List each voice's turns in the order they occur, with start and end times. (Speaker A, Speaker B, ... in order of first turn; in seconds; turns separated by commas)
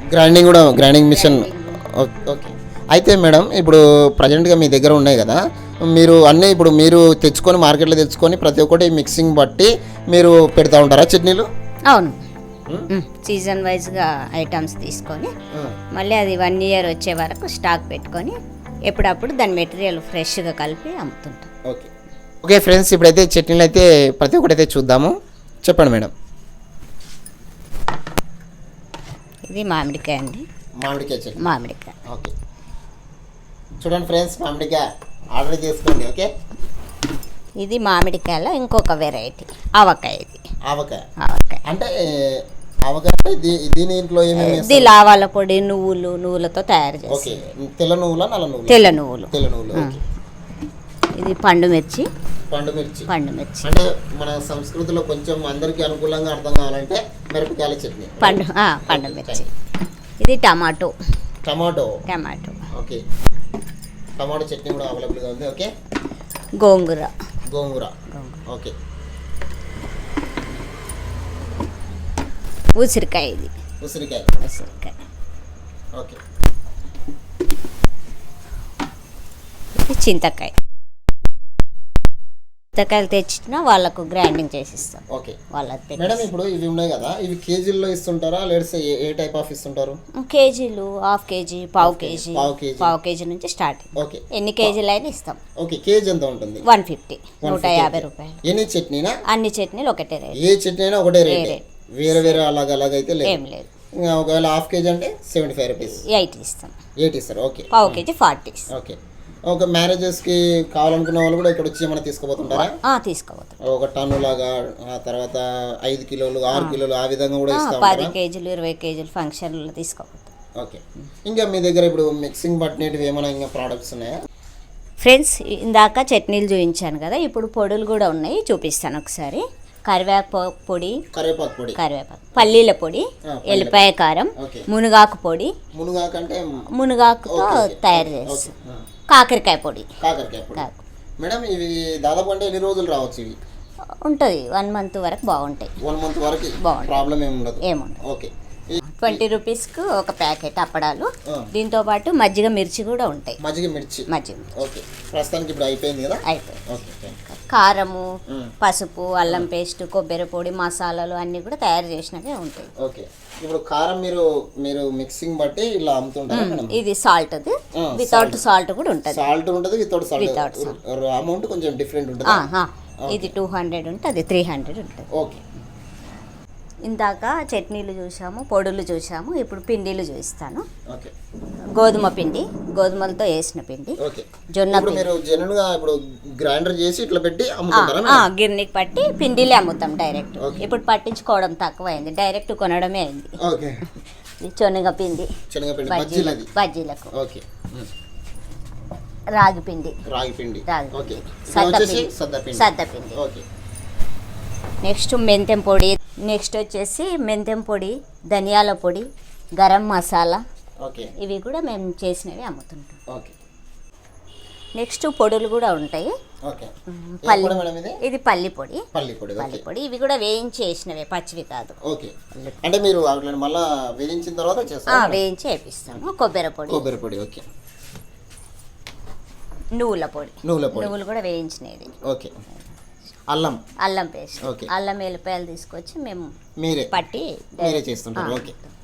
Speaker A: 0.1-11.5, Speaker B: 1.1-1.8, Speaker B: 11.9-12.2, Speaker B: 12.9-15.3, Speaker B: 15.9-18.3, Speaker B: 18.9-21.5, Speaker A: 22.4-26.1, Speaker B: 29.5-30.4, Speaker A: 30.8-31.5, Speaker B: 31.4-31.9, Speaker A: 32.0-32.3, Speaker A: 33.8-36.3, Speaker B: 37.6-40.4, Speaker A: 40.7-41.0, Speaker B: 41.2-41.6, Speaker A: 41.6-44.9, Speaker B: 44.4-47.4, Speaker A: 47.1-50.0, Speaker B: 48.7-50.0, Speaker B: 51.1-52.1, Speaker A: 52.5-53.1, Speaker B: 53.1-53.7, Speaker A: 53.6-59.5, Speaker B: 58.2-59.5, Speaker B: 60.2-60.9, Speaker A: 61.4-62.0, Speaker B: 62.1-62.7, Speaker A: 62.7-63.0, Speaker A: 64.2-65.7, Speaker B: 66.6-67.1, Speaker A: 67.5-67.9, Speaker B: 68.1-68.4, Speaker A: 68.5-68.7, Speaker B: 72.7-73.5, Speaker A: 73.8-74.3, Speaker B: 74.4-74.9, Speaker B: 79.8-80.5, Speaker B: 82.7-86.3, Speaker A: 85.1-85.4, Speaker A: 86.0-90.0, Speaker B: 90.2-95.4, Speaker A: 91.8-92.9, Speaker A: 94.0-94.7, Speaker A: 95.6-96.6, Speaker B: 96.6-98.4, Speaker A: 97.4-99.2, Speaker B: 99.3-100.4, Speaker A: 100.3-103.4, Speaker B: 101.3-102.4, Speaker B: 103.2-103.7, Speaker A: 104.0-106.0, Speaker B: 105.8-106.8, Speaker A: 107.0-108.0, Speaker B: 107.7-108.7, Speaker A: 108.7-109.0, Speaker A: 109.5-112.7, Speaker B: 112.5-113.6, Speaker A: 113.6-118.1, Speaker B: 116.5-116.8, Speaker B: 117.5-120.3, Speaker A: 120.6-124.2, Speaker B: 125.0-131.0, Speaker A: 131.1-131.8, Speaker B: 131.8-135.5, Speaker A: 133.3-134.7, Speaker A: 135.7-136.6, Speaker B: 136.7-138.5, Speaker A: 137.3-138.8, Speaker B: 139.1-139.9, Speaker A: 140.0-140.7, Speaker A: 141.2-143.4, Speaker B: 144.0-145.7, Speaker A: 145.8-149.2, Speaker B: 146.6-147.1, Speaker B: 147.6-148.0, Speaker B: 148.9-153.4, Speaker A: 153.4-154.1, Speaker B: 154.1-154.5, Speaker A: 154.6-157.2, Speaker B: 156.3-156.7, Speaker B: 157.2-158.1, Speaker A: 158.3-158.5, Speaker B: 158.6-162.7, Speaker A: 162.8-166.8, Speaker B: 166.3-169.2, Speaker A: 167.8-168.4, Speaker A: 169.1-172.4, Speaker B: 170.2-170.8, Speaker B: 172.2-175.1, Speaker A: 173.1-173.3, Speaker A: 175.1-175.4, Speaker B: 176.8-180.7, Speaker B: 181.8-184.0, Speaker A: 184.0-188.3, Speaker B: 184.5-185.1, Speaker B: 187.7-193.4, Speaker A: 190.4-190.7, Speaker A: 193.4-193.9, Speaker B: 194.4-195.3, Speaker A: 195.5-196.5, Speaker B: 195.9-197.1, Speaker A: 197.1-197.9, Speaker B: 199.3-200.0, Speaker A: 200.1-203.4, Speaker B: 200.7-203.2, Speaker B: 204.8-209.1, Speaker B: 209.6-210.4, Speaker A: 210.8-211.1, Speaker B: 211.2-213.0, Speaker B: 214.8-216.1, Speaker A: 216.4-216.7, Speaker B: 216.9-218.8, Speaker A: 217.2-218.0, Speaker A: 218.9-219.6, Speaker B: 219.4-221.8, Speaker A: 221.8-225.2, Speaker B: 222.3-222.6, Speaker B: 224.9-226.8, Speaker A: 226.7-227.4, Speaker B: 229.7-231.9, Speaker A: 230.4-230.9, Speaker A: 232.0-232.3, Speaker A: 233.3-233.6, Speaker B: 233.8-236.3, Speaker A: 234.4-234.7, Speaker A: 236.6-236.9, Speaker B: 236.9-238.7, Speaker A: 237.6-238.5